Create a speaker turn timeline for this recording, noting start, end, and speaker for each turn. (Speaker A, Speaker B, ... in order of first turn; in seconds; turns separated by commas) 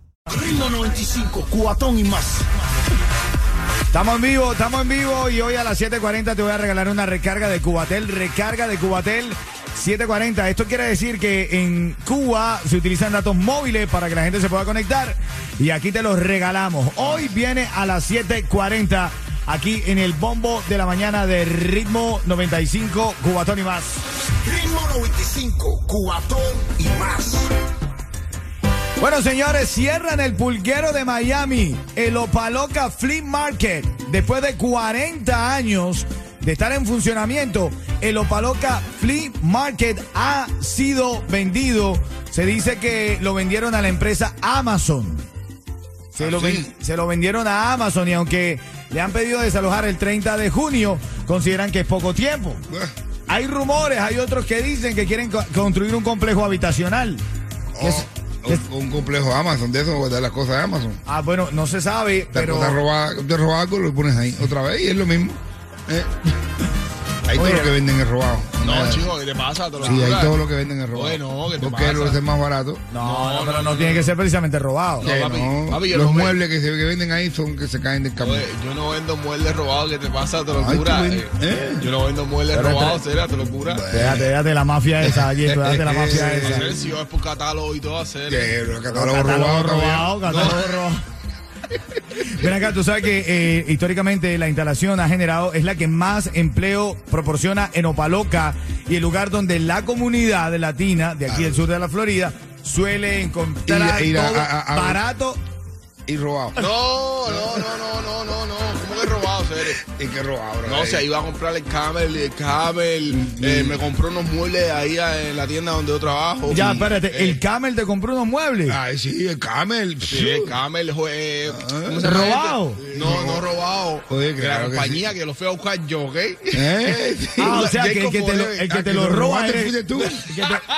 Speaker A: 0.3-2.4, Speaker B: 3.9-24.0, Speaker A: 24.4-27.5, Speaker B: 29.0-45.3, Speaker B: 46.1-52.6, Speaker C: 46.2-46.7, Speaker B: 53.3-57.2, Speaker C: 57.8-61.0, Speaker B: 57.8-58.6, Speaker B: 61.0-62.8, Speaker C: 62.3-66.1, Speaker C: 67.3-69.1, Speaker B: 67.3-67.7, Speaker D: 68.6-70.4, Speaker C: 69.8-72.8, Speaker B: 69.8-70.2, Speaker D: 70.9-72.2, Speaker B: 72.9-75.1, Speaker D: 73.0-74.1, Speaker D: 75.0-76.4, Speaker C: 75.0-78.5, Speaker D: 78.2-83.8, Speaker C: 80.5-81.9, Speaker B: 82.5-83.0, Speaker C: 83.7-84.3, Speaker B: 83.9-86.7, Speaker C: 85.0-86.9, Speaker D: 86.1-88.6, Speaker C: 88.3-90.5, Speaker B: 88.9-91.0, Speaker D: 90.3-90.6, Speaker B: 92.1-105.4, Speaker C: 101.3-101.6, Speaker C: 103.7-105.0, Speaker C: 106.1-106.6, Speaker D: 106.5-109.8, Speaker C: 109.7-111.0, Speaker D: 110.6-117.4, Speaker C: 113.1-113.8, Speaker B: 116.5-118.8, Speaker C: 118.7-120.5, Speaker D: 120.1-128.7, Speaker C: 121.5-122.0, Speaker B: 122.0-122.8, Speaker C: 122.9-123.5, Speaker C: 124.1-125.1, Speaker C: 126.5-127.7, Speaker B: 127.4-130.6, Speaker C: 128.7-130.2